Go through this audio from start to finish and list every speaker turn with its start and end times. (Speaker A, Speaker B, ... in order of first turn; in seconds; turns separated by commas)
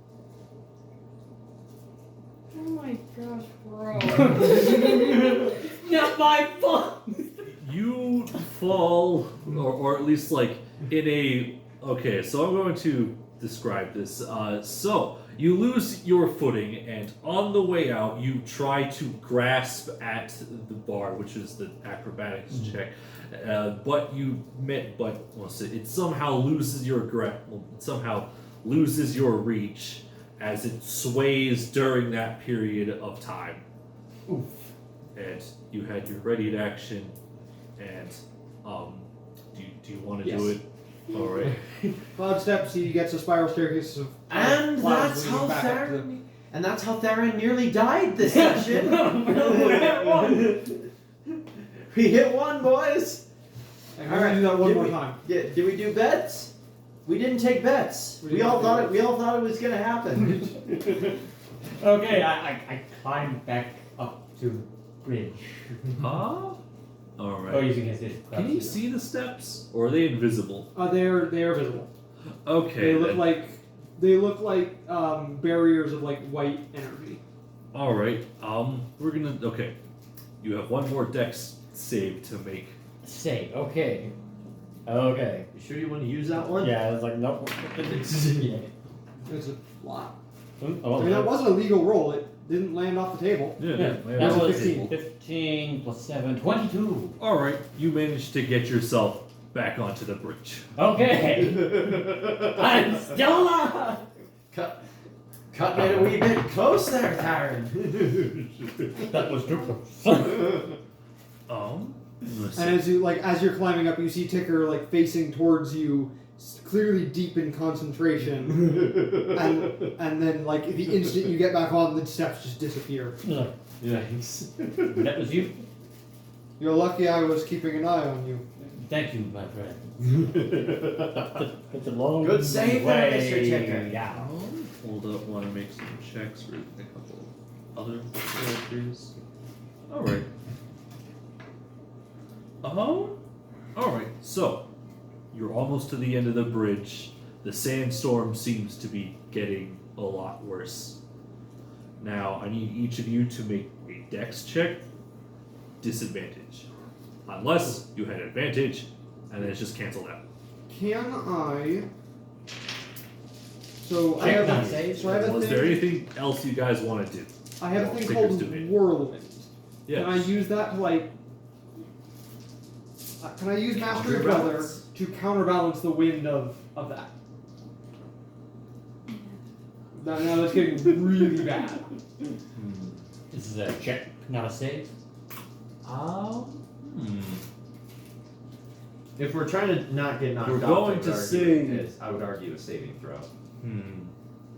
Speaker A: 2.5-5.5, Speaker B: 4.1-7.5, Speaker C: 7.6-33.6, Speaker B: 34.3-34.6, Speaker C: 35.1-37.1, Speaker C: 37.8-41.6, Speaker D: 40.2-40.6, Speaker D: 42.1-46.1, Speaker E: 44.3-50.9, Speaker B: 48.2-50.6, Speaker E: 51.9-53.2, Speaker D: 53.9-55.2, Speaker E: 54.0-56.5, Speaker E: 57.0-60.6, Speaker D: 58.2-59.0, Speaker B: 60.7-61.1, Speaker B: 61.8-65.5, Speaker C: 66.0-66.6, Speaker C: 67.2-67.8, Speaker B: 67.5-68.8, Speaker C: 68.3-70.7, Speaker D: 70.7-71.9, Speaker C: 72.4-73.4, Speaker D: 72.8-77.2, Speaker C: 77.7-79.8, Speaker C: 80.4-82.7, Speaker B: 83.0-84.1, Speaker B: 84.8-85.5, Speaker E: 85.5-86.8, Speaker B: 86.5-88.7, Speaker E: 87.9-88.5, Speaker D: 89.2-90.1, Speaker B: 90.6-91.4, Speaker D: 91.0-94.9, Speaker C: 93.6-95.0, Speaker B: 93.7-97.2, Speaker C: 97.2-100.7, Speaker B: 100.7-104.0, Speaker E: 104.5-104.8, Speaker E: 105.5-108.4, Speaker C: 105.7-106.2, Speaker B: 108.9-110.8, Speaker C: 111.5-113.0, Speaker D: 112.5-123.2, Speaker B: 123.2-123.5, Speaker E: 123.8-125.0, Speaker B: 124.8-125.6, Speaker D: 126.6-128.4, Speaker B: 128.6-134.3, Speaker E: 130.1-131.1, Speaker E: 132.2-133.9, Speaker C: 134.1-139.1, Speaker C: 139.9-140.3, Speaker C: 142.6-143.2, Speaker C: 143.7-144.7, Speaker C: 145.3-151.0, Speaker C: 152.0-154.8, Speaker C: 155.8-156.7, Speaker C: 157.2-160.2, Speaker D: 160.7-161.9, Speaker D: 163.8-165.9, Speaker B: 164.2-165.2, Speaker C: 165.0-168.7, Speaker D: 167.6-171.1, Speaker C: 169.8-170.3, Speaker D: 173.2-177.1, Speaker C: 173.8-174.8, Speaker A: 179.1-179.3, Speaker D: 179.9-181.9, Speaker C: 182.6-183.0, Speaker B: 183.3-184.9, Speaker C: 185.8-187.4, Speaker E: 189.2-193.3, Speaker C: 190.4-191.9, Speaker C: 193.6-194.1